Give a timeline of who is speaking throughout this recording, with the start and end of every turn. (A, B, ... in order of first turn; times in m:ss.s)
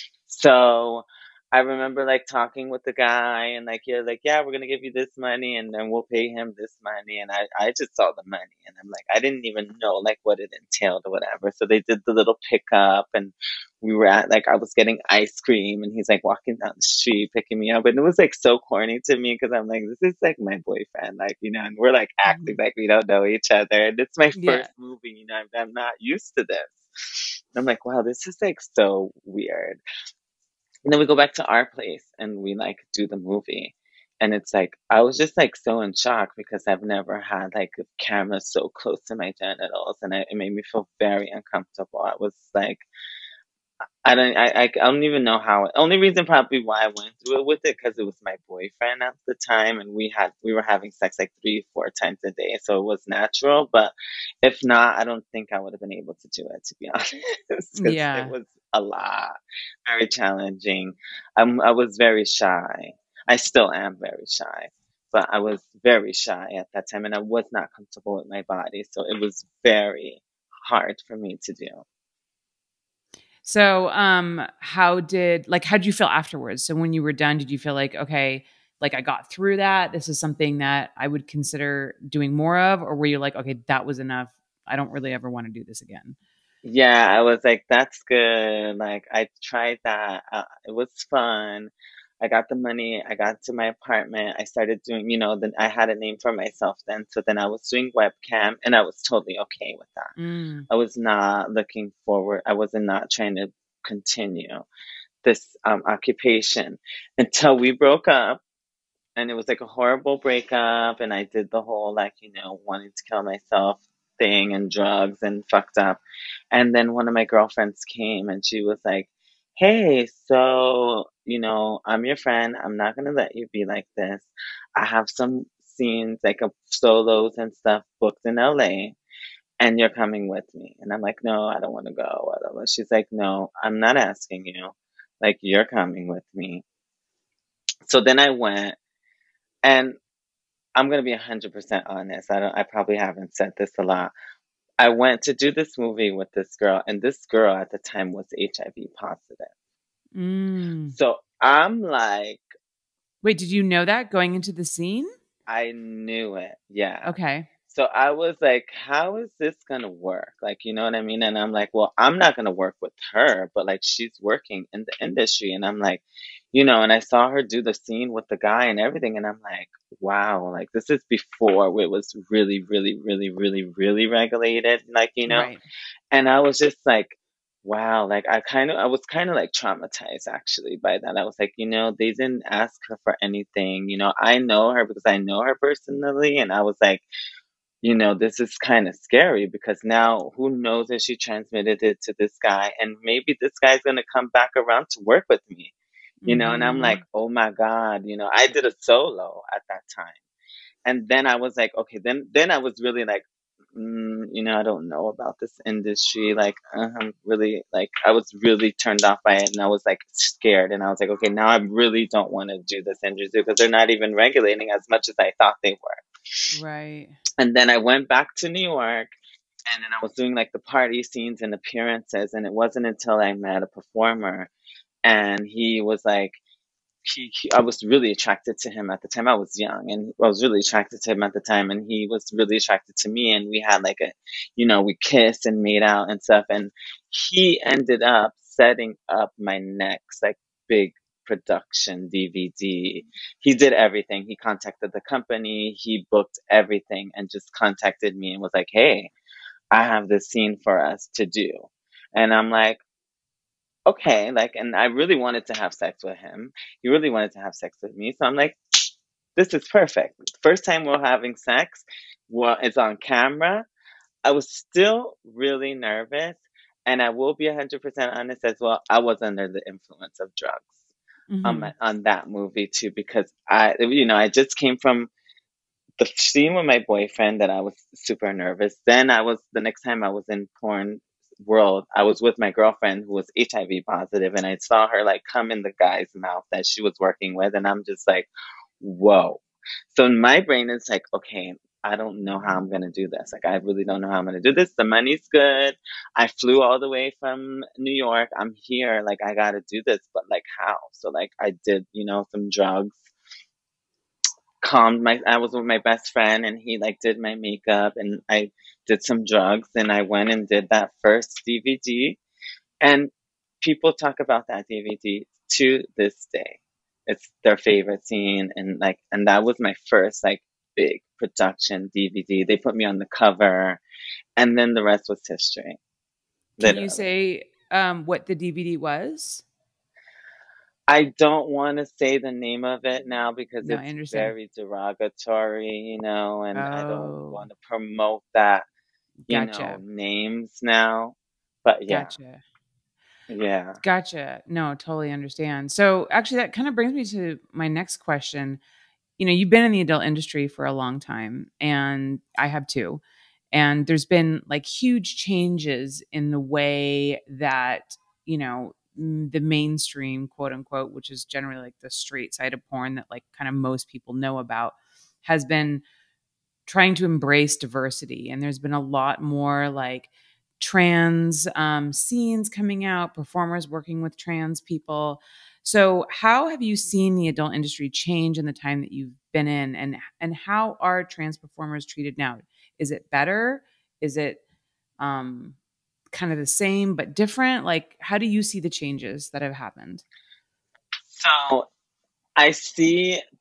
0:00.2-0:29.8 A
0:22.3-0:22.6 B
0:24.3-0:24.7 B
0:30.8-0:42.8 A
0:44.0-0:59.3 A
0:57.8-0:58.3 B
0:59.8-1:11.8 A
1:13.4-1:26.2 B
1:26.6-1:40.1 A
1:40.2-1:40.7 B
1:40.7-1:44.6 A
1:45.2-1:48.4 A
1:49.2-1:56.0 A
1:56.5-2:09.0 A
2:09.6-2:16.6 A
2:17.8-2:18.8 A
2:19.6-2:20.0 A
2:20.8-2:24.1 A
2:24.8-2:29.5 A
2:30.1-2:30.9 B
2:30.9-2:32.4 A
2:33.2-2:35.1 B
2:35.5-2:37.1 A
2:37.0-2:37.5 B
2:37.6-2:55.5 A
2:55.2-2:55.6 B
2:56.1-3:07.0 A
3:07.8-3:15.7 A
3:16.2-3:17.0 B
3:16.3-3:20.2 A
3:20.8-3:23.2 A
3:23.7-3:36.0 A
3:36.5-3:37.2 B
3:37.4-3:39.1 A
3:39.7-3:44.5 A
3:45.0-3:46.4 A
3:47.0-4:09.1 A
4:09.7-4:12.8 A
4:13.8-4:18.6 A
4:19.4-4:23.6 A
4:24.2-4:30.7 A
4:31.3-4:31.7 B
4:31.4-4:35.1 A
4:36.0-4:48.3 A
4:48.8-5:03.0 A
5:04.6-5:12.2 A
5:12.8-5:23.8 A
5:24.4-5:25.8 A
5:26.6-5:27.0 A
5:26.6-5:29.4 B
5:30.9-5:38.6 A
5:33.6-5:34.3 B
5:36.5-5:37.4 B
5:39.2-5:39.8 B
5:39.3-5:42.1 A
5:41.9-5:42.4 B
5:43.3-5:43.8 A
5:43.8-5:48.6 B
5:49.2-5:53.0 B
5:53.5-6:05.8 B
6:06.7-6:24.4 B
6:25.0-6:25.6 B
6:26.1-6:30.0 B
6:31.1-6:31.7 A
6:32.4-6:33.2 A